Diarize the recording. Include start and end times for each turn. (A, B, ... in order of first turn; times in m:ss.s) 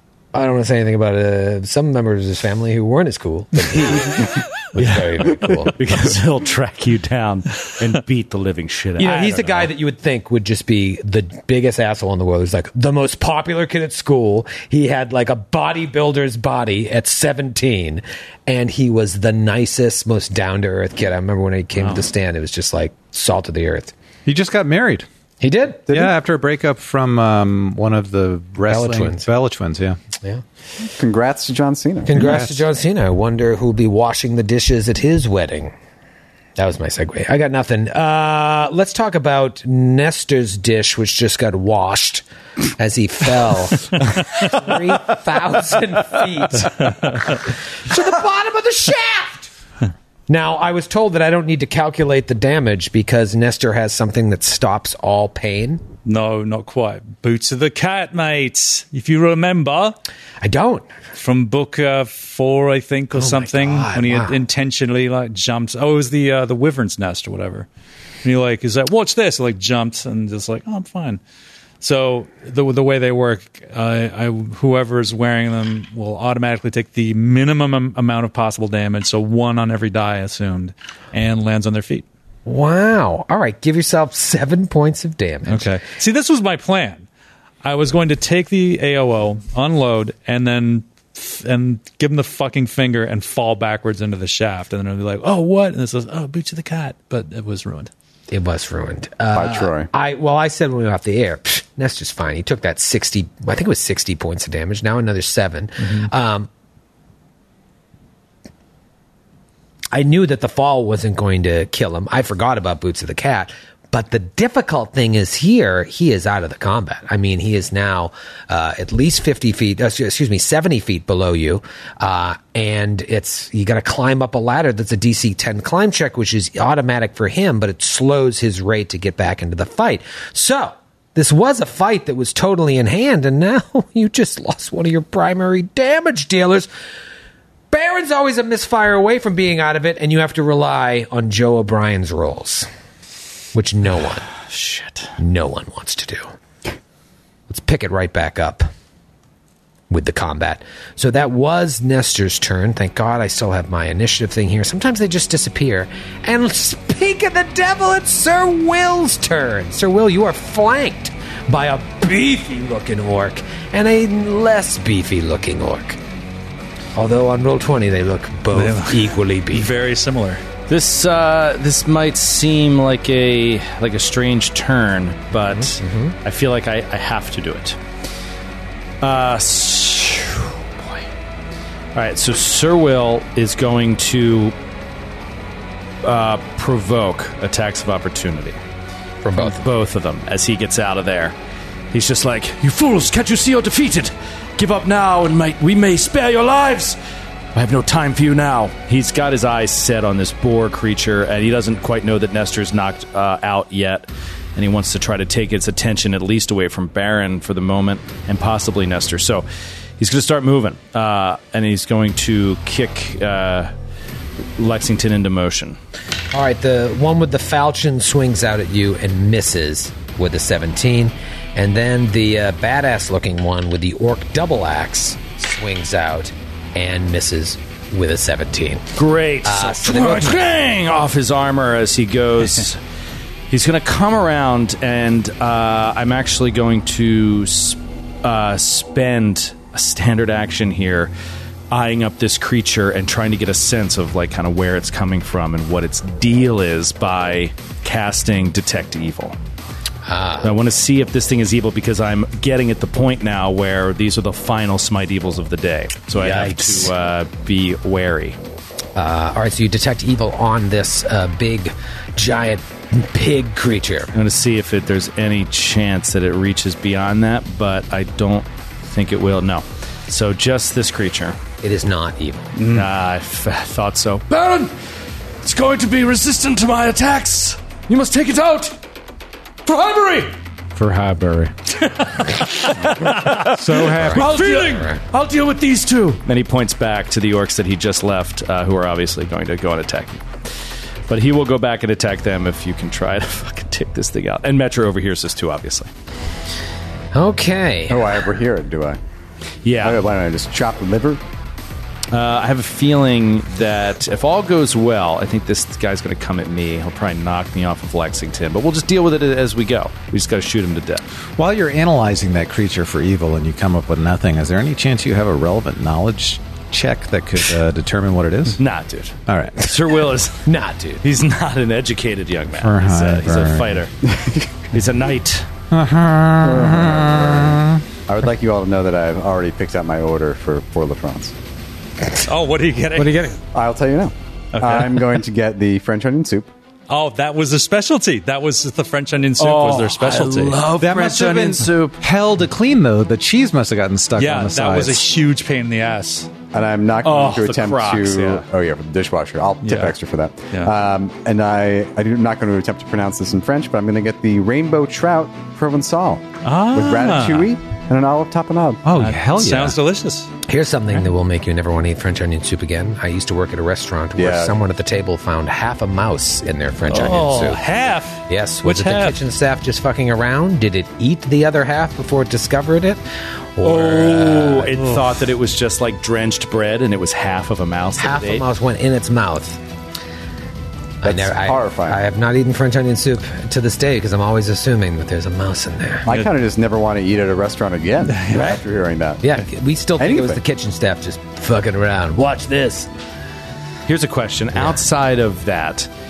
0:00.3-0:05.8 A
0:04.8-0:09.7 B
0:09.0-0:23.9 A
0:21.8-0:22.0 C
0:24.2-0:25.1 D
0:25.4-0:25.9 A
0:25.9-0:30.0 D
0:28.6-0:29.3 A
0:30.8-0:32.3 E
0:32.0-0:35.7 A
0:32.1-0:32.6 D
0:36.6-0:49.5 A
0:46.8-0:47.3 C
0:50.3-0:55.8 A
0:56.0-1:00.0 C
1:00.4-1:00.9 A
1:01.1-1:07.7 C
1:03.1-1:04.4 A
1:08.2-1:11.2 C
1:11.8-1:22.0 C
1:22.4-1:25.8 A
1:25.4-1:27.0 C
1:27.6-1:37.9 C
1:38.3-1:46.5 A
1:39.3-1:39.9 E
1:45.8-1:46.1 C
1:49.9-2:16.7 A
2:17.7-2:22.7 A
2:23.5-2:24.2 A
2:24.5-2:25.1 B
2:25.2-2:26.3 A
2:27.5-2:28.7 A
2:29.9-2:46.0 A
2:46.9-2:49.7 A
2:48.5-2:50.4 C
2:50.7-2:57.8 B
2:55.5-2:56.1 A
2:59.0-3:01.0 B
3:01.9-3:04.5 B
3:06.0-3:08.6 B
3:09.2-3:09.6 A
3:09.4-3:11.3 B
3:11.9-3:17.0 B
3:17.5-3:29.4 B
3:30.0-3:33.7 B
3:34.6-3:35.8 B
3:36.3-3:48.9 A
3:48.9-3:52.8 B
3:49.4-3:50.4 A
3:53.5-4:01.1 B
4:01.7-4:09.4 B
4:10.0-4:10.5 A
4:10.4-4:18.4 B
4:16.1-4:16.9 A
4:19.0-4:24.1 A
4:24.1-4:31.4 B
4:31.6-4:32.5 A
4:32.6-4:32.9 C
4:32.7-4:34.8 B
4:35.4-4:38.8 B
4:39.6-4:40.3 B
4:40.8-4:41.5 D
4:41.9-4:42.2 C
4:43.0-4:50.2 B
4:43.4-4:44.4 D
4:43.9-4:45.0 A
4:51.1-4:55.9 B
4:57.1-4:58.2 A
4:57.9-4:59.0 E
4:59.6-5:00.0 B
4:59.8-5:01.2 E
5:02.1-5:11.0 B
5:11.4-5:18.6 D
5:18.6-5:20.4 B
5:19.3-5:19.6 D
5:20.4-5:21.0 A
5:21.0-5:23.9 B
5:22.6-5:23.8 D
5:24.0-5:24.5 E
5:24.7-5:25.5 B
5:25.7-5:27.8 D
5:26.4-5:31.3 E
5:32.2-5:33.4 C
5:33.5-5:36.5 E
5:34.5-5:35.2 C
5:36.9-5:40.6 C
5:39.4-5:42.0 B
5:40.8-5:45.1 D
5:44.2-5:46.3 C
5:46.5-5:58.9 E
5:47.0-5:48.4 B
5:49.6-5:49.9 C
5:56.4-5:57.5 C
5:58.8-5:59.8 D
5:58.9-6:00.3 C
6:00.5-6:07.6 A
6:04.2-6:04.5 E
6:06.9-6:09.2 C
6:08.3-6:13.0 A
6:13.6-6:14.7 A
6:13.6-6:18.4 B
6:13.7-6:15.0 C
6:18.0-6:19.6 A
6:21.0-6:26.1 A
6:21.0-6:22.0 E
6:26.0-6:29.2 E
6:28.3-6:28.6 A
6:29.2-6:32.9 A
6:30.0-6:30.4 E
6:33.9-6:35.9 B